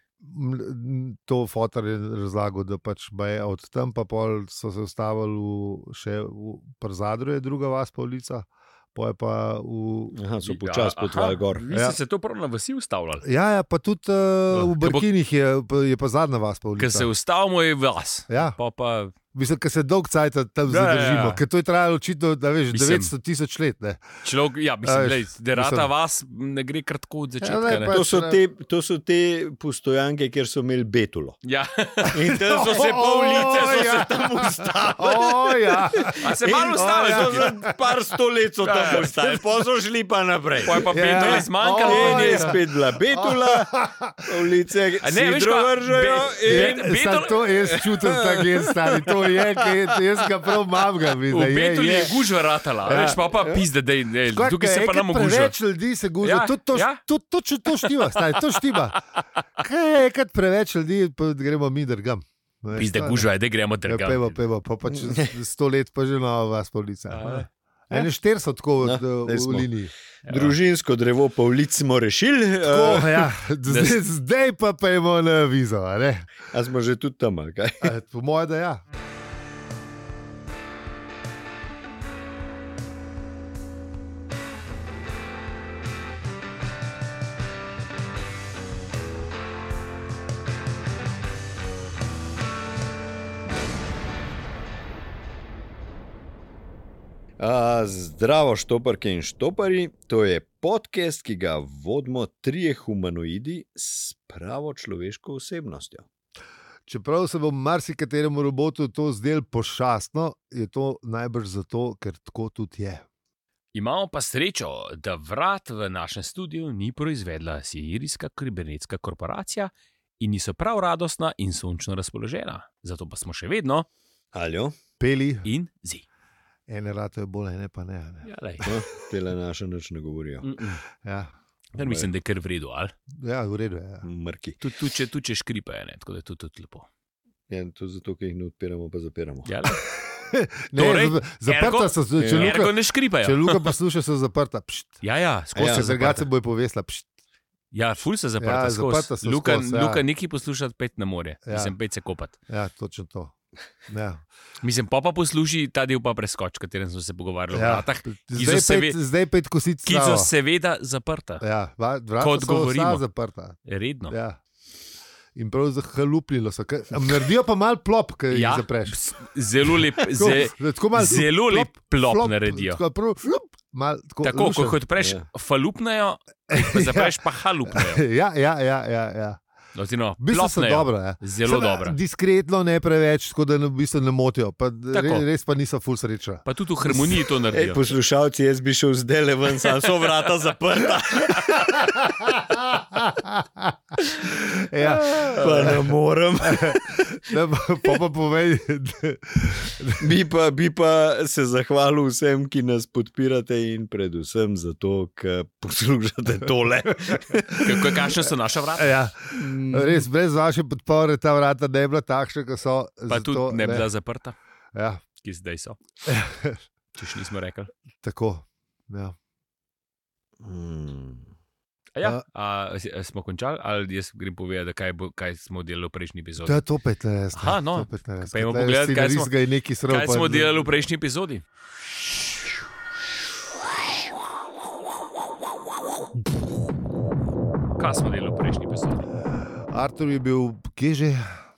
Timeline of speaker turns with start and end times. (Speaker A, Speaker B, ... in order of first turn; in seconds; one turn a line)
Speaker A: 0.2-10.2
Speaker B: 10.1-11.7
Speaker C: 10.4-13.2
Speaker A: 11.7-12.0
Speaker A: 13.2-17.1
Speaker C: 14.5-15.1
Speaker C: 16.8-19.1
Speaker A: 18.3-18.6
Speaker A: 19.3-24.2
Speaker C: 20.7-21.4
Speaker C: 22.7-23.1
Speaker C: 24.2-28.0
Speaker A: 24.8-25.9
Speaker A: 27.4-28.4
Speaker B: 27.9-31.4
Speaker C: 31.4-34.2
Speaker B: 32.1-46.9
Speaker A: 32.3-37.9
Speaker C: 36.1-37.5
Speaker C: 38.6-39.4
Speaker C: 40.6-42.6
Speaker A: 40.8-44.3
Speaker C: 45.0-47.5
Speaker A: 46.4-52.2
Speaker B: 47.6-50.8
Speaker C: 51.3-55.5
Speaker A: 52.8-53.2
Speaker B: 53.3-53.6
Speaker A: 54.3-59.0
Speaker C: 56.2-57.0
Speaker C: 57.8-59.0
Speaker A: 59.6-63.3
Speaker C: 62.7-64.4
Speaker A: 63.8-69.9
Speaker B: 65.0-65.3
Speaker C: 67.1-67.5
Speaker B: 68.8-69.7
Speaker C: 70.2-70.5
Speaker B: 70.2-73.3
Speaker A: 72.6-76.5
Speaker C: 73.7-74.0
Speaker B: 76.5-77.9
Speaker A: 77.8-78.8
Speaker B: 97.4-106.0
Speaker A: 106.9-113.0
Speaker C: 113.7-123.9
Speaker B: 124.3-124.8
Speaker A: 125.0-125.5
Speaker C: 125.4-126.0
Speaker A: 126.7-128.3
Speaker C: 128.2-128.7
Speaker B: 128.6-130.6
Speaker C: 130.4-130.8
Speaker A: 131.0-131.3
Speaker C: 131.8-132.9
Speaker B: 131.8-132.1
Speaker A: 133.1-134.1
Speaker B: 134.0-134.6
Speaker C: 134.6-136.9
Speaker B: 137.5-139.5
Speaker C: 139.4-139.8
Speaker A: 140.0-145.0
Speaker C: 140.7-143.7
Speaker B: 142.2-142.6
Speaker C: 145.0-146.3
Speaker B: 145.6-145.9
Speaker A: 145.6-147.1
Speaker C: 147.7-152.3
Speaker A: 148.4-150.0
Speaker A: 151.4-151.7
Speaker A: 152.5-153.3
Speaker A: 153.9-154.2
Speaker C: 154.6-159.0
Speaker A: 157.5-160.3
Speaker C: 159.8-161.4
Speaker A: 161.4-164.4
Speaker C: 162.2-163.0
Speaker C: 163.6-164.2
Speaker A: 165.3-169.0
Speaker C: 168.3-172.8
Speaker A: 170.1-174.8
Speaker C: 174.2-178.0
Speaker B: 175.0-175.2
Speaker A: 176.5-179.4
Speaker C: 179.7-182.0
Speaker A: 180.2-186.4
Speaker C: 184.9-185.2
Speaker C: 186.4-187.8
Speaker B: 187.5-192.0
Speaker C: 189.8-190.1
Speaker A: 191.8-193.8
Speaker B: 194.2-197.3
Speaker A: 194.7-195.9
Speaker C: 195.0-195.7
Speaker A: 196.4-200.1
Speaker B: 200.0-207.7
Speaker A: 207.1-208.0
Speaker C: 207.6-208.9
Speaker A: 208.8-213.8
Speaker B: 209.3-210.1
Speaker C: 213.1-214.3
Speaker A: 214.7-215.0
Speaker C: 215.2-215.8
Speaker A: 216.0-216.6
Speaker C: 216.9-217.7
Speaker A: 218.0-219.2
Speaker B: 220.4-221.3
Speaker C: 221.9-226.6
Speaker A: 226.4-230.7
Speaker C: 227.3-229.3
Speaker C: 229.9-231.4
Speaker C: 237.8-239.1
Speaker A: 239.7-241.4